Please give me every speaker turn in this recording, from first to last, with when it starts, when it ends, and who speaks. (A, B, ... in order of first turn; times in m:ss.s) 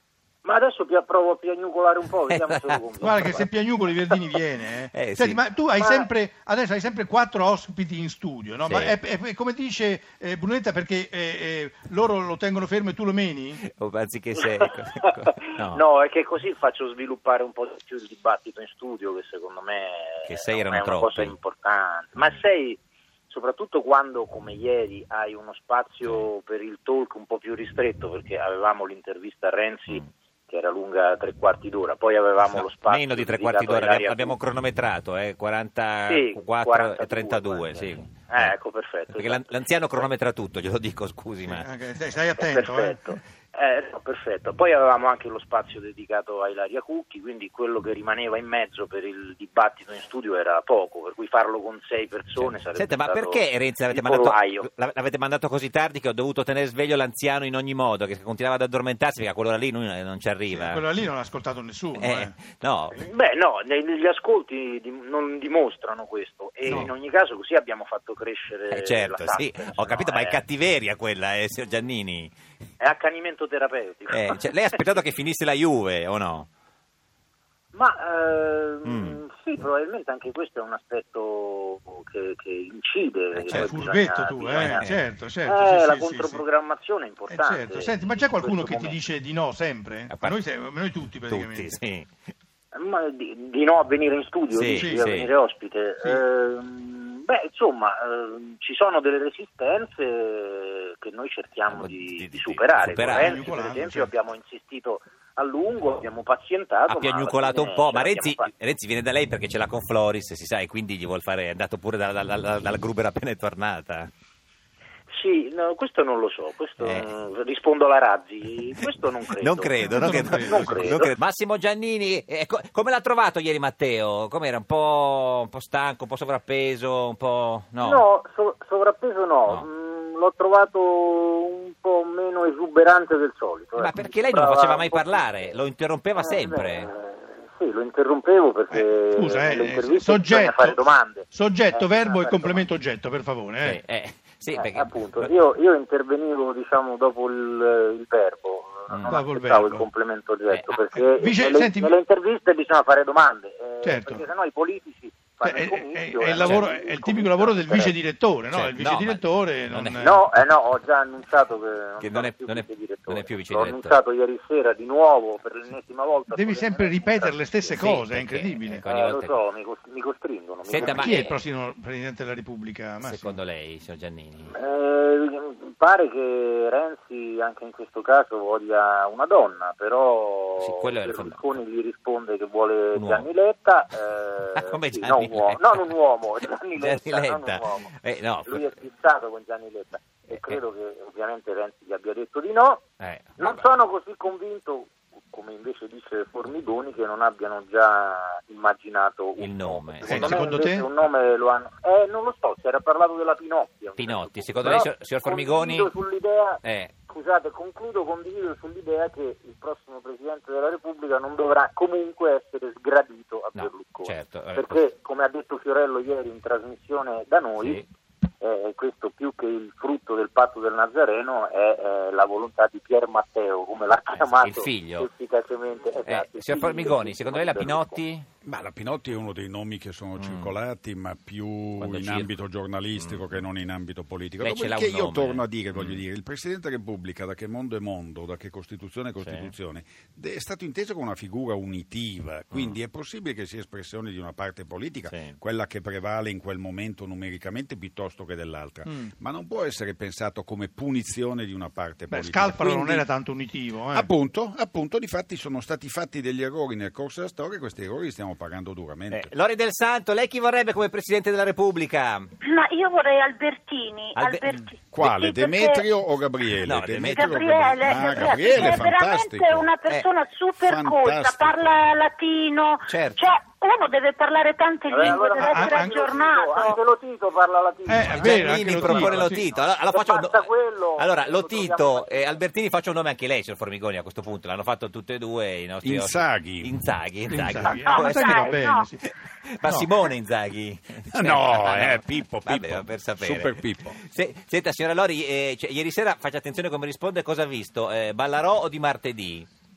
0:00.4-0:03.5 A
0:02.4-0:02.8 B
0:03.0-0:13.6 C
0:04.9-0:05.4 B
0:05.8-0:06.1 A
0:08.7-0:09.0 B
0:13.6-0:15.8 B
0:15.0-0:34.4 A
0:20.3-0:21.3 B
0:32.4-0:38.6 B
0:36.1-0:40.1 A
0:39.1-0:41.7 B
0:41.4-0:43.0 C
0:42.4-0:54.7 A
0:52.4-1:00.9 B
1:00.5-1:02.3 C
1:02.0-1:03.0 B
1:03.0-1:10.4 A
1:06.7-1:06.9 C
1:08.7-1:12.3 B
1:12.8-1:14.8 A
1:14.1-1:16.5 B
1:17.7-1:24.9 A
1:18.8-1:19.2 B
1:23.4-1:23.8 B
1:23.5-1:26.4 C
1:24.5-1:25.0 B
1:25.5-1:29.0 A
1:27.3-1:31.8 C
1:30.1-1:30.4 B
1:31.3-1:32.1 B
1:32.7-1:48.5 A
1:34.5-1:35.3 B
1:34.7-1:35.3 C
1:41.7-1:43.4 B
1:42.9-1:44.1 C
1:46.9-1:54.1 B
1:55.1-2:01.1 A
1:56.8-1:57.1 B
1:59.4-2:08.0 B
1:59.8-2:00.9 C
2:07.8-2:15.6 A
2:13.8-2:16.9 B
2:16.2-2:22.7 A
2:18.7-2:23.8 C
2:23.6-2:25.3 B
2:24.5-2:38.0 A
2:28.9-2:29.2 B
2:29.1-2:29.9 C
2:30.9-2:31.9 C
2:33.8-2:34.2 C
2:35.4-2:40.2 C
2:38.5-2:40.2 B
2:40.0-2:47.8 A
2:42.0-2:44.0 B
2:46.3-2:48.8 C
2:47.7-2:49.4 B
2:48.8-2:51.2 A
2:50.7-2:51.4 B
2:50.8-2:53.4 C
2:53.0-2:54.5 B
2:54.5-3:07.9 A
3:00.6-3:01.4 B
3:02.9-3:03.2 B
3:04.6-3:05.9 B
3:06.7-3:08.7 B
3:08.5-3:12.8 A
3:10.3-3:10.6 B
3:13.0-3:13.6 B
3:13.4-3:37.8 A
3:19.4-3:20.5 B
3:20.0-3:20.9 C
3:24.0-3:25.9 B
3:26.6-3:26.9 B
3:33.6-3:34.7 B
3:37.6-3:37.8 B
3:38.4-3:48.0 A
3:44.2-3:45.1 B
3:46.1-3:48.3 B
3:48.4-4:13.1 D
3:50.2-3:50.6 B
3:51.8-3:52.3 B
3:53.0-3:53.4 B
3:54.4-3:56.0 B
3:59.2-3:59.5 B
4:05.1-4:05.3 B
4:12.1-4:14.1 C
4:13.9-4:19.3 D
4:19.1-4:22.3 B
4:22.4-4:25.8 E
4:24.2-4:24.5 B
4:24.9-4:29.7 D
4:26.7-4:28.7 B
4:27.0-4:36.8 E
4:30.6-4:31.8 D
4:32.9-4:33.3 B
4:34.9-4:42.4 A
4:35.3-4:36.0 C
4:37.9-4:39.4 C
4:38.1-4:48.5 B
4:45.8-4:46.7 D
4:47.3-4:49.1 C
4:47.7-4:48.9 E
4:49.3-4:59.5 B
4:49.6-4:49.9 C
4:51.1-4:54.0 D